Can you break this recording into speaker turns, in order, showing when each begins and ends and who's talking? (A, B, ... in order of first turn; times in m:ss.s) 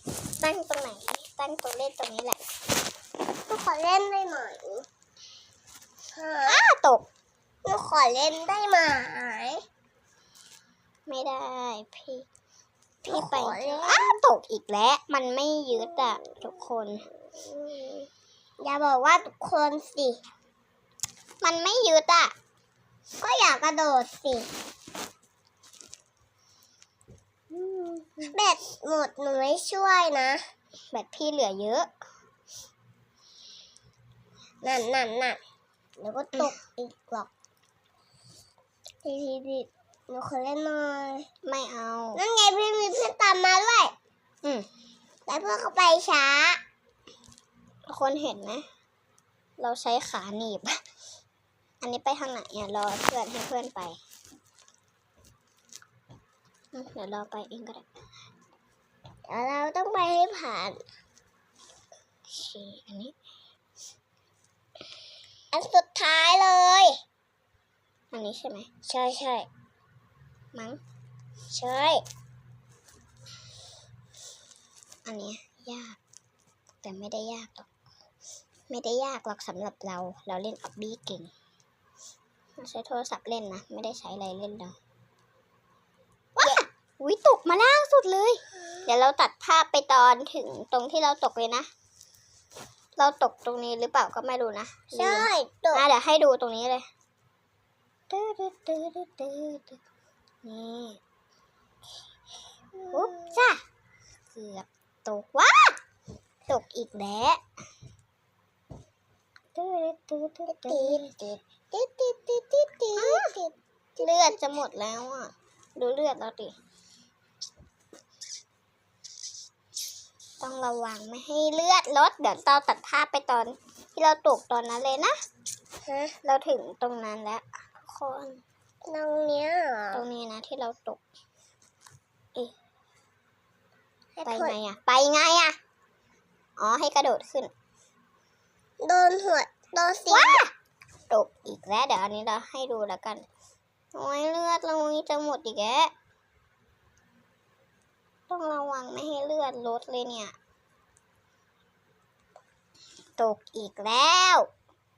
0:00.4-0:02.4 A
0:03.5-0:04.8 B
0:06.2-0:06.6 B
0:06.4-0:07.0 A
0:07.6-0:09.6 B
0:11.1-0:12.2 A
0:13.0-0:17.1 A
0:13.1-0:14.2 B
0:17.4-0:18.1 B
0:18.6-0:20.2 B
0:21.4-0:22.3 A
0:23.2-0:24.5 B
0:27.5-0:28.3 A
0:28.3-0:30.4 B
0:30.9-0:31.9 A
0:34.6-0:35.4 B
0:36.0-0:37.3 B
0:39.0-0:41.3 B
0:41.4-0:42.2 A
0:42.2-0:44.0 B
0:45.3-0:46.6 B
0:47.9-0:48.6 A
0:49.6-0:50.8 A
0:51.8-0:54.0 A
0:56.7-0:57.9 A
0:59.3-1:00.8 B
1:02.3-1:03.1 A
1:05.5-1:07.0 B
1:08.1-1:08.7 A
1:08.8-1:09.5 B
1:10.5-1:10.8 A
1:11.5-1:12.0 B
1:15.1-1:16.0 A
1:16.8-1:17.7 A
1:18.7-1:21.3 A
1:22.6-1:24.8 A
1:26.4-1:26.6 B
1:26.4-1:31.7 A
1:33.0-1:36.9 A
1:34.9-1:35.8 B
1:38.1-1:39.8 A
1:40.4-1:41.0 A
1:42.8-1:43.2 B
1:42.9-1:43.6 A
1:44.3-1:45.8 A
1:46.5-1:47.4 A
1:49.6-1:51.0 A
1:50.6-1:53.6 B
1:53.0-1:53.3 A
1:54.0-1:56.6 A
2:00.4-2:05.2 A
2:05.9-2:06.1 B
2:06.2-2:08.4 A
2:08.8-2:10.0 B
2:09.9-2:11.0 A
2:14.2-2:14.5 B
2:14.2-2:15.6 A
2:16.6-2:17.5 A
2:18.8-2:20.4 B
2:20.1-2:20.5 A
2:21.1-2:23.2 A
2:23.9-2:25.9 A
2:28.3-2:30.3 A
2:33.2-2:34.5 A